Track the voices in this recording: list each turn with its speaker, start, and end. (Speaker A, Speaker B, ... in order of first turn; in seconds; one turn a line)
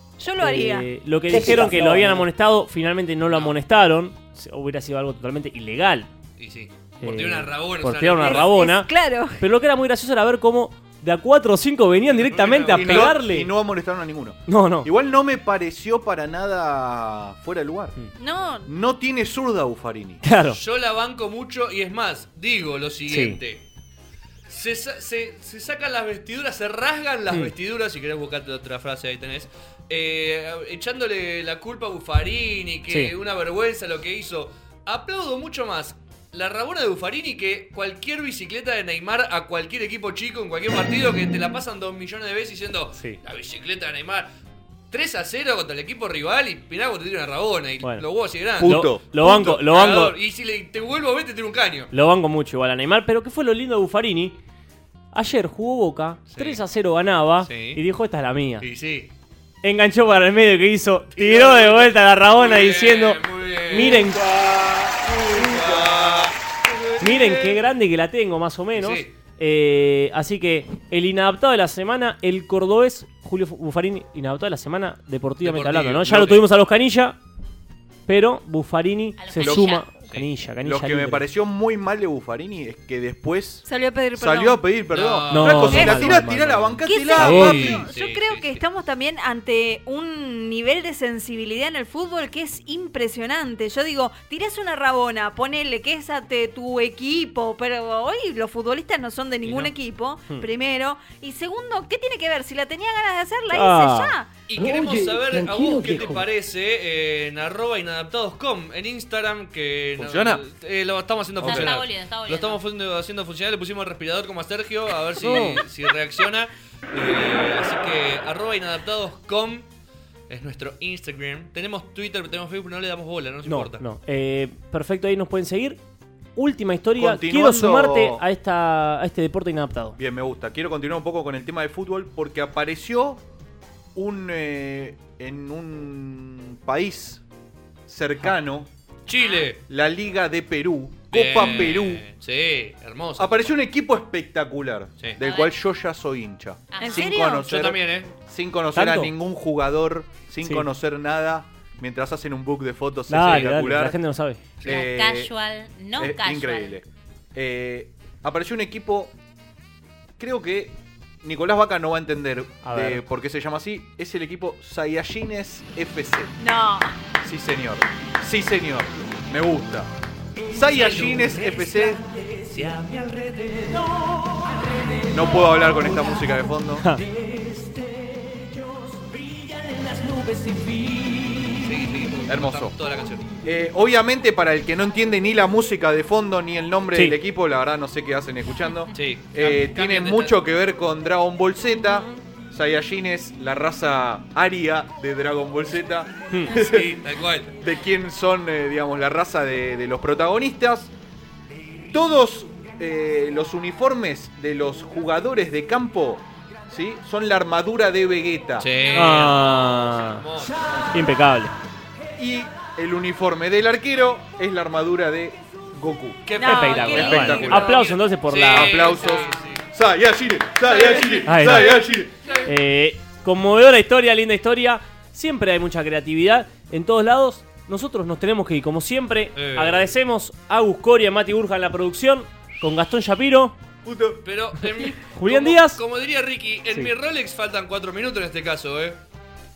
Speaker A: 0.2-0.9
Speaker B: 0.4-6.1
Speaker C: 6.4-8.6
Speaker B: 7.0-13.5
Speaker A: 8.2-9.4
Speaker C: 12.3-13.2
Speaker D: 12.7-17.9
Speaker B: 14.5-14.9
Speaker A: 18.2-18.7
Speaker D: 18.6-20.2
Speaker B: 20.2-20.6
Speaker C: 20.6-23.6
Speaker B: 23.1-23.4
Speaker C: 24.5-44.3
Speaker B: 32.9-33.1
Speaker C: 44.9-48.8
Speaker D: 48.6-49.5
Speaker B: 48.6-50.1
Speaker C: 49.3-51.9
Speaker B: 51.9-54.4
Speaker B: 55.1-58.7
Speaker C: 56.3-56.6
Speaker C: 57.4-57.8
Speaker C: 58.6-59.1
Speaker B: 59.6-64.2
Speaker C: 61.1-64.4
Speaker D: 64.9-66.3
Speaker C: 65.1-66.3
Speaker C: 67.0-67.3
Speaker B: 67.0-77.2
Speaker C: 68.8-69.1
Speaker C: 75.4-76.5
Speaker B: 78.1-81.3
Speaker E: 79.2-79.9
Speaker D: 80.6-83.6
Speaker A: 83.7-84.6
Speaker D: 84.2-87.8
Speaker C: 84.9-86.0
Speaker B: 85.3-87.8
Speaker A: 85.8-86.0
Speaker A: 86.8-104.3
Speaker C: 87.3-88.6
Speaker B: 99.4-99.7
Speaker B: 103.5-104.1
Speaker C: 104.5-119.7
Speaker D: 110.0-110.4
Speaker D: 111.4-111.7
Speaker E: 111.4-112.6
Speaker B: 115.2-115.6
Speaker C: 120.3-123.8
Speaker B: 123.4-125.8
Speaker B: 126.3-129.9
Speaker D: 127.0-128.2
Speaker D: 130.0-133.2
Speaker D: 133.9-137.2
Speaker D: 137.9-138.7
Speaker C: 139.1-139.6
Speaker E: 139.1-139.5
Speaker D: 139.7-142.0
Speaker C: 141.1-143.6
Speaker D: 143.2-153.9
Speaker E: 145.2-145.5
Speaker E: 146.7-147.1
Speaker A: 146.8-147.5
Speaker C: 147.4-148.1
Speaker B: 148.7-149.1
Speaker B: 150.4-150.7
Speaker B: 153.1-154.4
Speaker D: 154.6-155.3
Speaker E: 154.7-156.8
Speaker D: 156.0-159.1
Speaker D: 160.2-166.3
Speaker B: 162.6-163.0
Speaker A: 166.4-166.9
Speaker D: 167.2-169.9
Speaker D: 170.5-172.0
Speaker C: 170.7-173.8
Speaker D: 175.1-176.9
Speaker B: 176.8-177.1
Speaker C: 181.5-183.3
Speaker D: 182.3-182.7
Speaker D: 183.4-196.9
Speaker C: 188.9-190.4
Speaker C: 196.5-197.5
Speaker D: 197.6-200.9
Speaker D: 201.9-208.7
Speaker C: 208.6-210.9
Speaker B: 208.9-210.3
Speaker B: 210.9-211.5
Speaker D: 212.2-217.7
Speaker C: 216.3-219.6
Speaker A: 216.4-217.7
Speaker B: 216.4-219.1
Speaker D: 218.5-222.1
Speaker C: 220.6-221.7
Speaker B: 221.3-221.7
Speaker B: 222.4-233.6
Speaker C: 229.3-229.9
Speaker D: 233.8-234.2
Speaker C: 234.2-239.0
Speaker B: 234.8-235.8